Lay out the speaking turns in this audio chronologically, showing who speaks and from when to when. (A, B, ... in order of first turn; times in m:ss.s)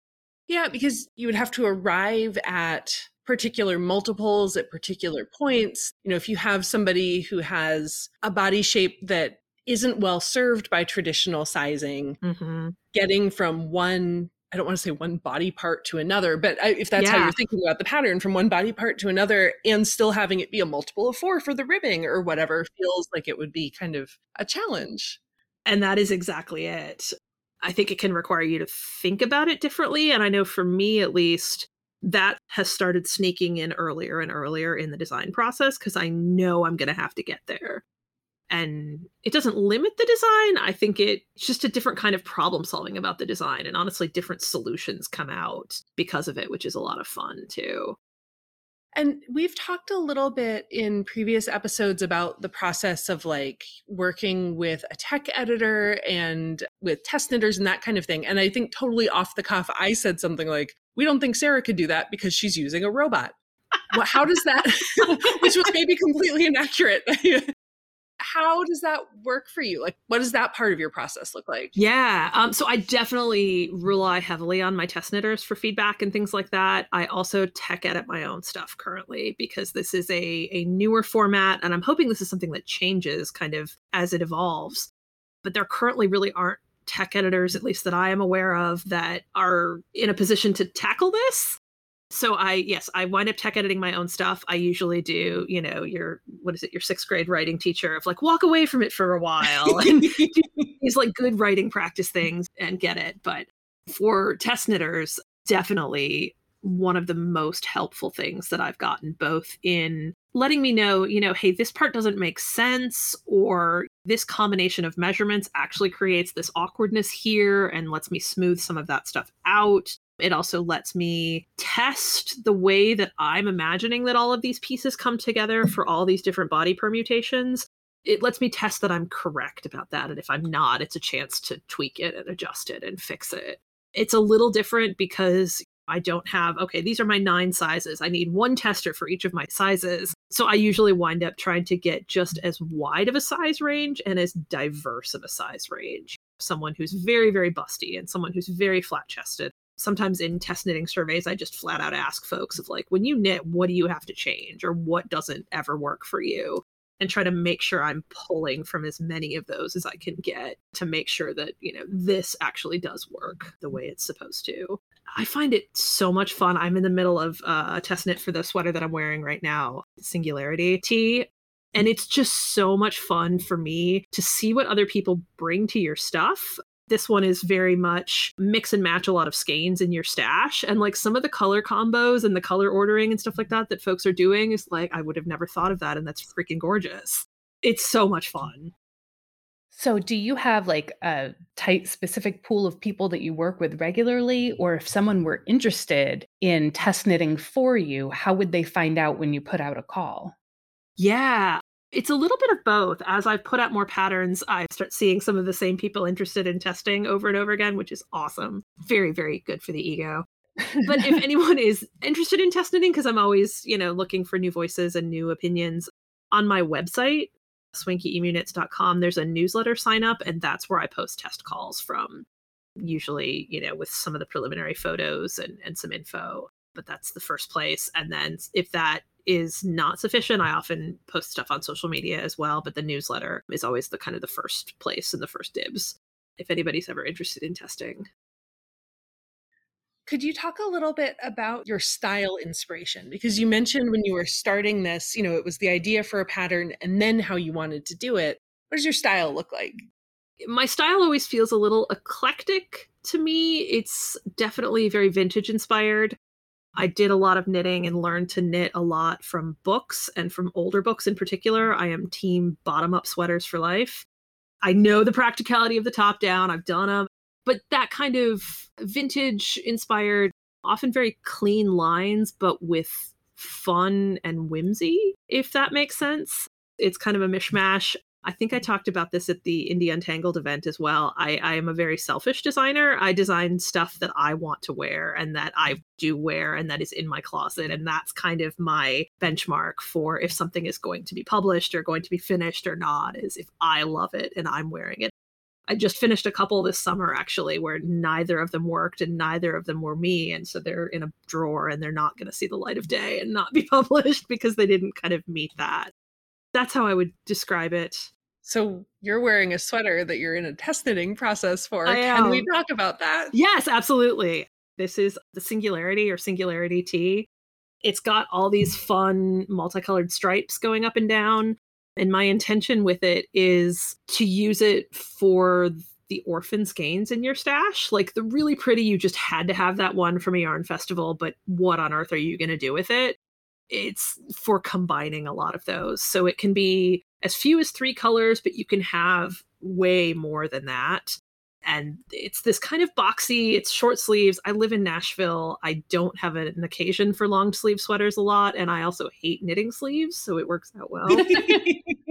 0:00.5-0:12.2 A
0:12.2-0:12.8 B
0:12.9-0:25.2 A
0:17.0-0:17.4 B
0:25.7-0:27.1 B
0:27.6-0:37.8 B
0:38.5-0:48.0 B
0:48.9-1:03.4 A
1:03.9-1:07.5 A
1:08.2-1:11.8 A
1:11.8-1:24.9 B
1:25.4-1:31.6 B
1:32.1-3:08.7 B
1:39.7-1:40.7 A
3:09.7-3:20.4 C
3:21.0-3:30.3 B
3:30.8-3:42.3 B
3:42.8-3:58.1 B
4:00.1-4:09.8 A
4:10.4-4:16.2 B
4:16.8-4:24.1 B
4:24.6-4:55.1 B
4:55.7-5:05.9 B
5:06.6-5:08.1 B
5:08.4-5:13.4 A
5:11.8-5:12.5 B
5:13.3-5:17.3 B
5:17.8-5:33.2 B
5:33.7-5:51.3 B
5:51.2-5:51.7 C
5:51.2-5:52.0 A